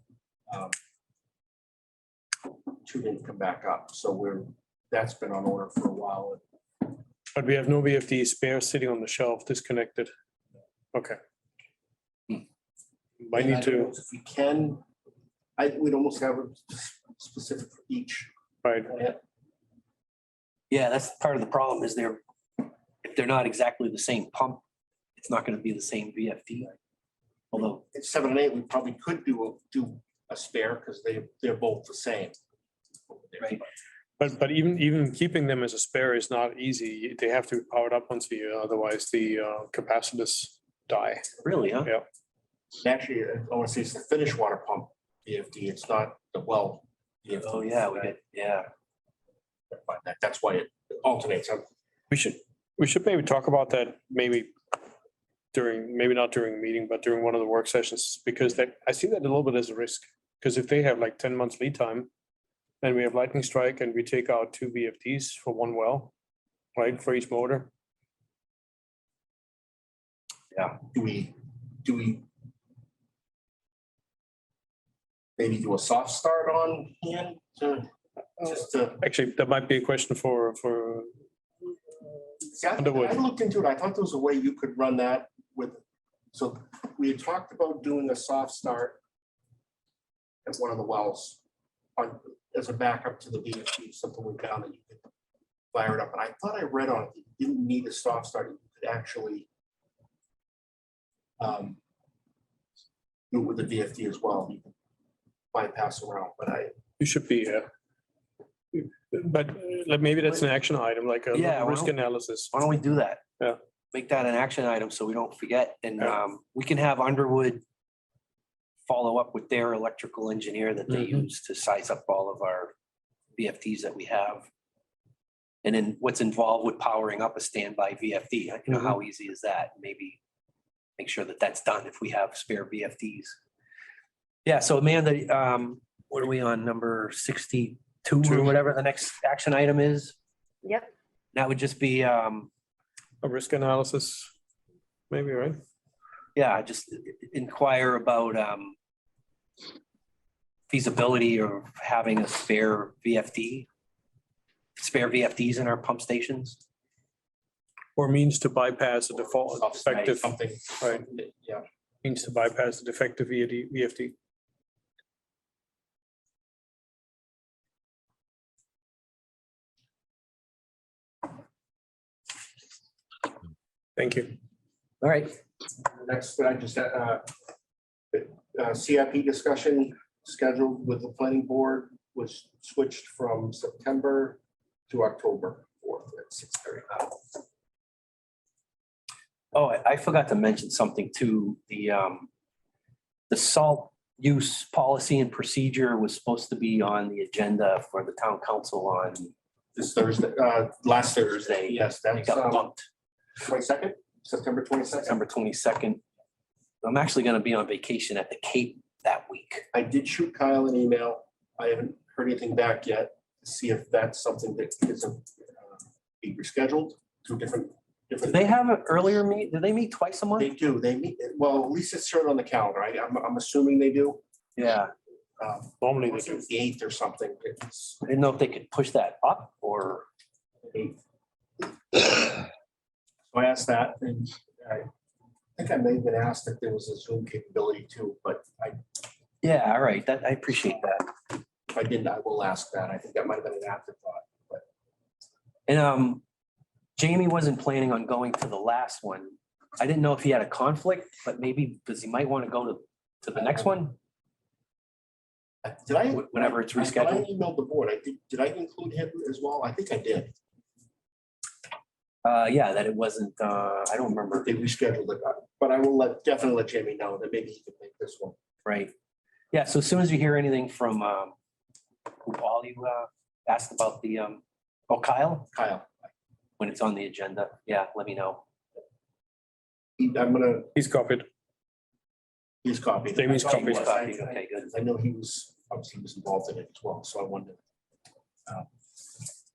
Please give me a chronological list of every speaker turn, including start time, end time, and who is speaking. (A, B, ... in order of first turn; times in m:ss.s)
0:00.5-0:00.8 A
0:02.8-0:06.4 A
0:07.4-0:10.1 B
0:10.9-0:11.2 B
0:13.2-0:13.9 B
0:13.3-0:14.8 A
0:15.6-0:18.3 A
0:18.6-0:18.9 B
0:18.9-0:19.2 A
0:20.7-0:24.6 C
0:25.2-0:26.8 C
0:27.5-0:27.8 C
0:27.6-0:32.4 A
0:33.1-0:33.7 A
0:34.2-0:41.3 B
0:41.4-0:41.9 C
0:42.8-0:48.2 A
0:47.4-0:48.7 C
0:49.7-0:51.7 A
0:52.1-0:54.5 B
0:55.5-1:02.1 B
1:02.8-1:06.1 B
1:06.8-1:07.7 B
1:10.7-1:12.3 A
1:15.4-1:19.0 A
1:19.0-1:21.2 B
1:22.5-1:25.8 A
1:22.8-1:23.2 B
1:26.3-1:29.0 A
1:30.4-1:31.4 A
1:32.0-1:35.0 A
1:35.7-1:39.5 A
1:41.4-1:41.8 A
1:43.3-1:44.7 A
1:45.5-1:46.7 A
1:47.0-1:47.7 B
1:48.7-1:52.5 B
1:51.3-1:52.0 C
1:52.5-1:53.2 C
1:53.9-1:57.6 C
1:58.9-2:02.7 C
2:03.4-2:04.5 C
2:05.6-2:10.2 C
2:11.0-2:13.4 C
2:14.4-2:20.2 C
2:18.2-2:18.6 B
2:21.3-2:22.5 C
2:23.2-2:24.3 B
2:25.1-2:25.6 B
2:26.4-2:28.8 C
2:30.7-2:33.7 C
2:34.8-2:36.6 C
2:38.0-2:41.0 B
2:39.1-2:41.6 A
2:42.0-2:44.2 B
2:54.0-2:54.4 B
2:55.0-2:55.4 C
2:56.0-2:57.2 A
2:58.1-3:07.1 A
3:09.5-3:12.3 C
3:13.3-3:19.3 C
3:19.8-3:22.7 A
3:21.3-3:22.8 C
3:23.4-3:25.2 A
3:25.1-3:26.0 C
3:26.8-3:29.6 C
3:29.7-3:38.7 A
3:38.3-3:40.5 C
3:40.4-3:44.2 A
3:44.6-3:44.9 C
3:45.4-3:48.0 A
3:45.8-3:46.4 B
3:48.0-3:50.1 C
3:50.6-3:51.0 A
3:51.6-3:52.5 A
3:53.3-3:54.9 A
3:55.6-3:58.8 A
3:59.4-4:01.1 C
4:01.7-4:04.6 A
4:05.7-4:06.2 C
4:07.0-4:14.0 C
4:15.6-4:20.3 A
4:16.1-4:17.3 C
4:22.2-4:24.5 C
4:24.3-4:28.4 A
4:28.6-4:28.9 C
4:29.5-4:31.3 C
4:32.2-4:35.5 C
4:35.5-4:36.1 A
4:36.6-4:38.4 C
4:40.0-4:40.7 A
4:40.8-4:41.3 B
4:42.6-4:47.6 A
4:43.2-4:44.0 B
4:43.4-4:44.7 C